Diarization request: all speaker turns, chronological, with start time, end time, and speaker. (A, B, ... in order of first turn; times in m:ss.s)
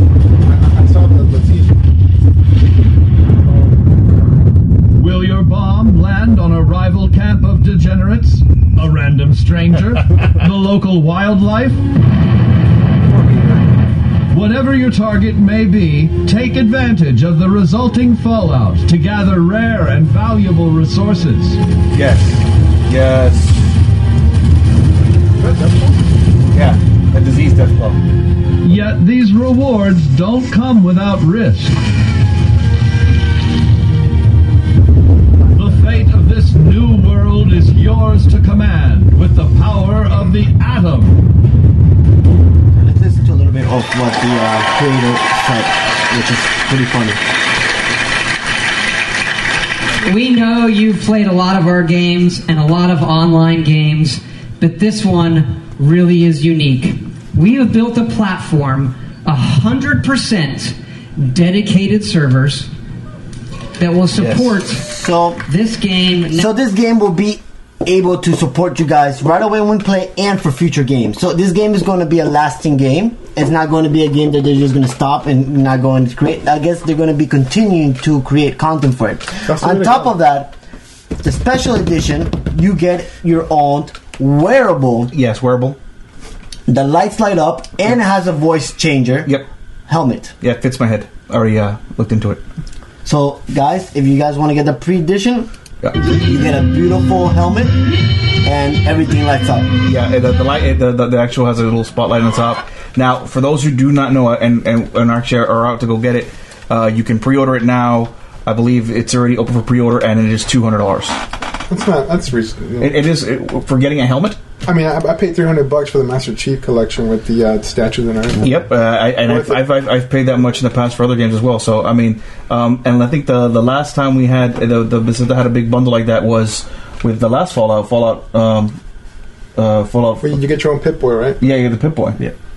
0:00.4-0:01.8 A
0:03.2-0:04.4 A
0:05.0-0:11.8 B
0:13.0-0:13.7 C
0:14.3-0:21.6 B
0:21.9-0:23.7 C
0:25.4-0:26.1 A
0:26.5-0:28.0 C
0:28.6-0:31.8 B
0:35.4-0:36.2 A
0:35.5-0:41.2 B
0:42.7-0:47.2 D
0:50.0-1:02.7 E
1:03.8-1:04.8 E
1:04.2-1:04.5 C
1:04.7-1:05.4 D
1:05.5-1:06.5 E
1:06.3-1:20.6 D
1:19.5-1:20.1 A
1:21.2-1:25.1 D
1:25.1-1:25.8 C
1:26.7-1:29.4 D
1:29.9-1:30.4 D
1:30.4-1:32.4 C
1:33.0-1:35.5 D
1:36.1-1:37.8 D
1:38.4-1:39.7 D
1:39.8-1:51.2 C
1:51.7-1:53.0 A
1:52.8-1:54.4 C
1:54.6-1:58.6 A
1:58.4-2:08.8 C
1:59.2-1:59.6 A
2:09.6-2:10.4 C
2:10.2-2:11.4 A
2:11.4-2:12.2 C